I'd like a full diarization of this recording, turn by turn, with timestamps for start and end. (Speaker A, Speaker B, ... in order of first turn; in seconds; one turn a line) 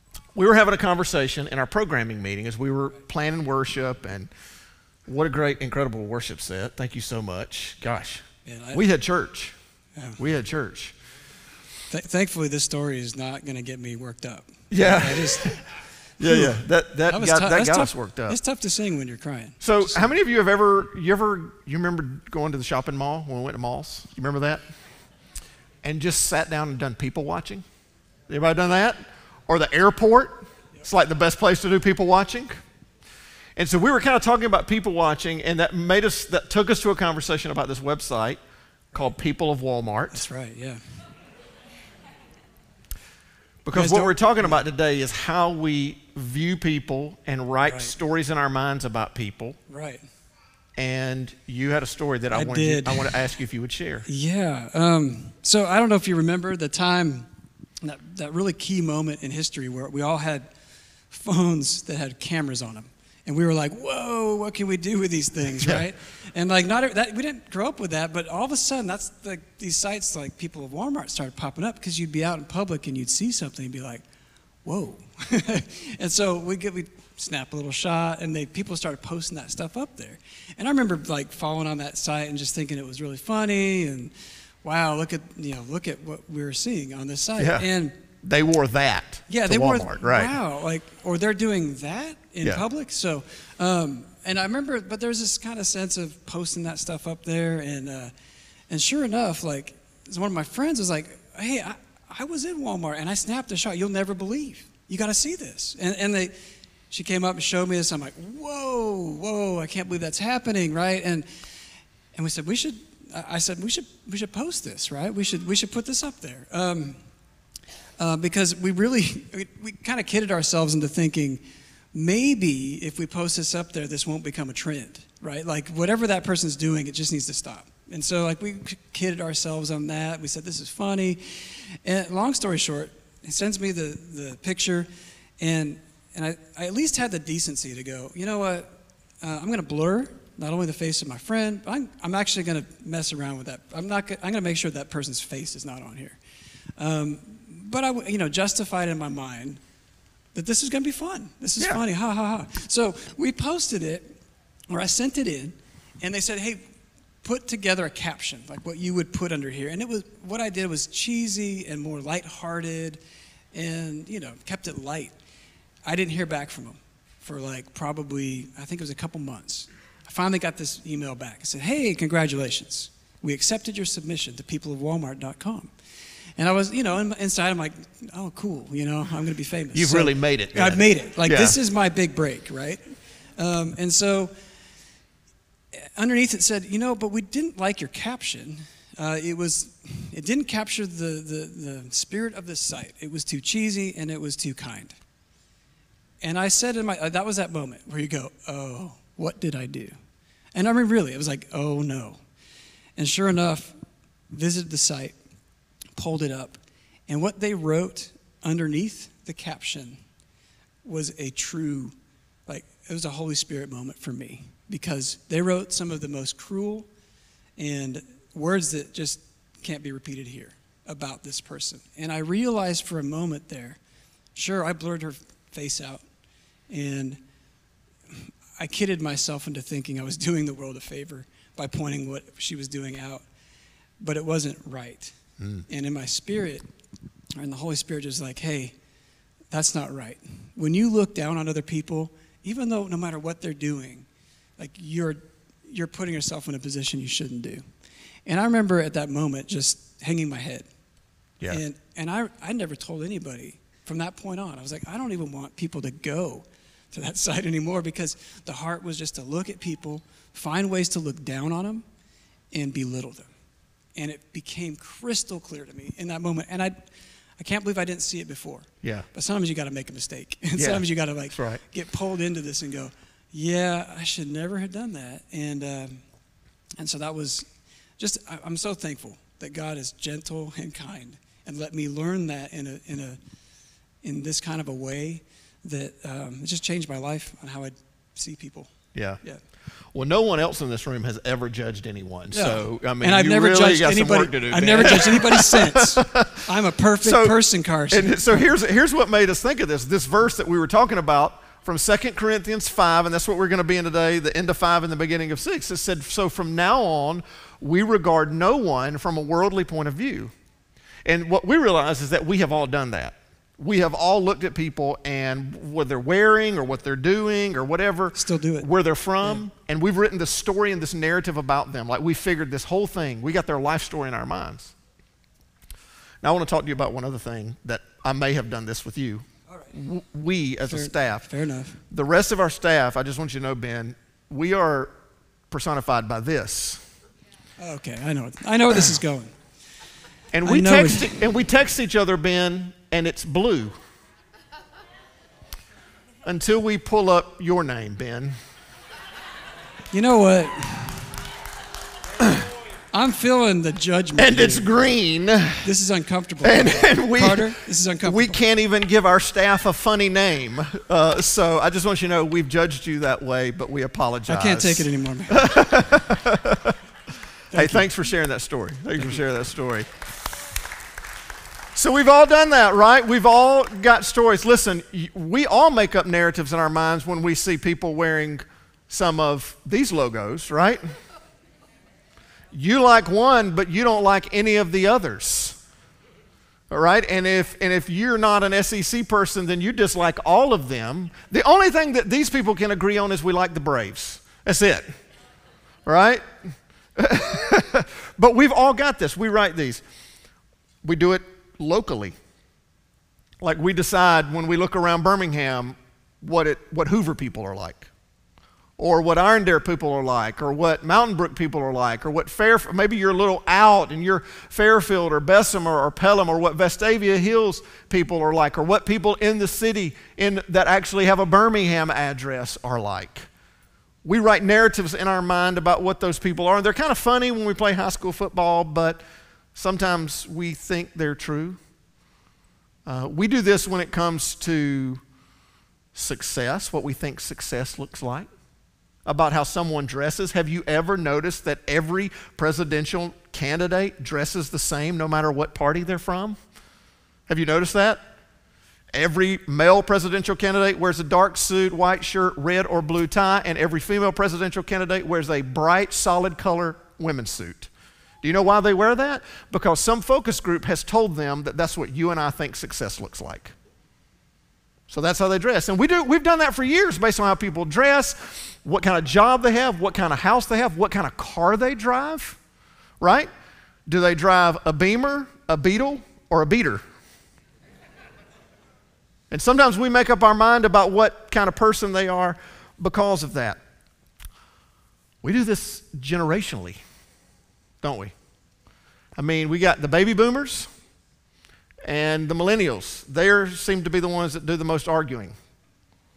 Speaker A: 0.3-4.3
Speaker A: 5.1-9.6
Speaker B: 8.5-8.8
Speaker A: 10.2-10.9
Speaker B: 11.9-15.6
Speaker A: 14.7-15.6
Speaker A: 16.2-18.4
Speaker B: 16.2-20.1
Speaker A: 19.6-24.6
Speaker A: 25.8-27.6
Speaker A: 28.3-32.5
Speaker A: 33.6-38.4
Speaker A: 38.9-40.3
Speaker B: 40.1-40.8
Speaker A: 43.6-49.6
Speaker B: 43.7-44.6
Speaker B: 47.6-48.0
Speaker B: 49.7-50.0
Speaker A: 50.8-54.1
Speaker B: 52.3-53.2
Speaker B: 54.1-57.3
Speaker B: 57.8-60.5
Speaker B: 61.1-74.0
Speaker B: 74.7-88.0
Speaker A: 87.4-87.7
Speaker A: 88.2-90.3
Speaker B: 89.3-98.1
Speaker B: 98.7-106.3
Speaker B: 106.9-111.3
Speaker B: 112.2-117.0
Speaker B: 118.0-121.4
Speaker B: 121.9-134.9
Speaker B: 135.4-138.7
Speaker B: 139.2-146.2
Speaker B: 146.8-149.6
Speaker B: 150.3-154.2
Speaker B: 154.7-156.6
Speaker B: 157.2-163.0
Speaker B: 163.5-165.2
Speaker B: 165.9-175.7
Speaker B: 176.4-182.8
Speaker A: 179.7-181.6
Speaker B: 183.4-184.3
Speaker B: 185.7-195.0
Speaker B: 196.2-199.9
Speaker B: 200.6-202.2
Speaker B: 203.0-203.7
Speaker B: 204.3-205.2
Speaker B: 206.0-210.0
Speaker B: 210.8-211.9
Speaker B: 212.5-216.9
Speaker B: 217.6-223.8
Speaker B: 224.3-226.0
Speaker B: 226.7-227.2
Speaker B: 228.1-233.2
Speaker B: 234.0-235.2
Speaker A: 235.4-235.7
Speaker B: 235.7-236.7
Speaker B: 237.4-238.8
Speaker B: 239.5-244.1
Speaker B: 244.6-247.7
Speaker B: 248.3-250.7
Speaker B: 251.5-261.9
Speaker B: 262.5-263.3
Speaker B: 264.0-276.0
Speaker A: 270.6-271.6
Speaker B: 276.8-277.5
Speaker B: 278.0-283.2
Speaker B: 284.0-289.4
Speaker A: 288.9-289.2
Speaker A: 289.9-296.5
Speaker B: 292.3-298.2
Speaker A: 297.0-297.4
Speaker A: 297.9-310.3
Speaker A: 311.1-324.7
Speaker B: 318.2-318.7
Speaker A: 326.2-331.2
Speaker B: 330.7-331.8
Speaker A: 331.9-334.9
Speaker A: 335.5-336.9
Speaker B: 337.6-339.4
Speaker A: 340.3-343.8
Speaker B: 340.4-341.2
Speaker A: 346.2-348.4
Speaker B: 349.9-351.2
Speaker A: 352.2-352.5
Speaker B: 352.9-354.7
Speaker A: 354.2-355.7
Speaker B: 355.6-358.4
Speaker A: 356.4-366.8
Speaker B: 364.3-365.7
Speaker B: 367.5-367.9
Speaker A: 367.6-369.9
Speaker A: 371.8-380.8
Speaker A: 382.5-385.6
Speaker A: 386.7-394.9
Speaker A: 395.9-396.2
Speaker A: 397.0-399.8
Speaker A: 400.8-402.1
Speaker A: 403.4-407.9
Speaker A: 408.8-423.3
Speaker A: 424.0-429.0
Speaker A: 429.6-431.6
Speaker A: 432.9-435.0
Speaker A: 435.9-438.3
Speaker A: 439.1-446.4
Speaker A: 447.3-448.0
Speaker A: 448.9-457.7
Speaker A: 458.2-463.6
Speaker A: 464.9-472.4
Speaker A: 473.0-473.3
Speaker A: 473.9-476.8
Speaker A: 479.3-483.6
Speaker A: 485.2-486.8
Speaker A: 487.8-488.1
Speaker A: 489.2-490.7
Speaker A: 491.9-495.3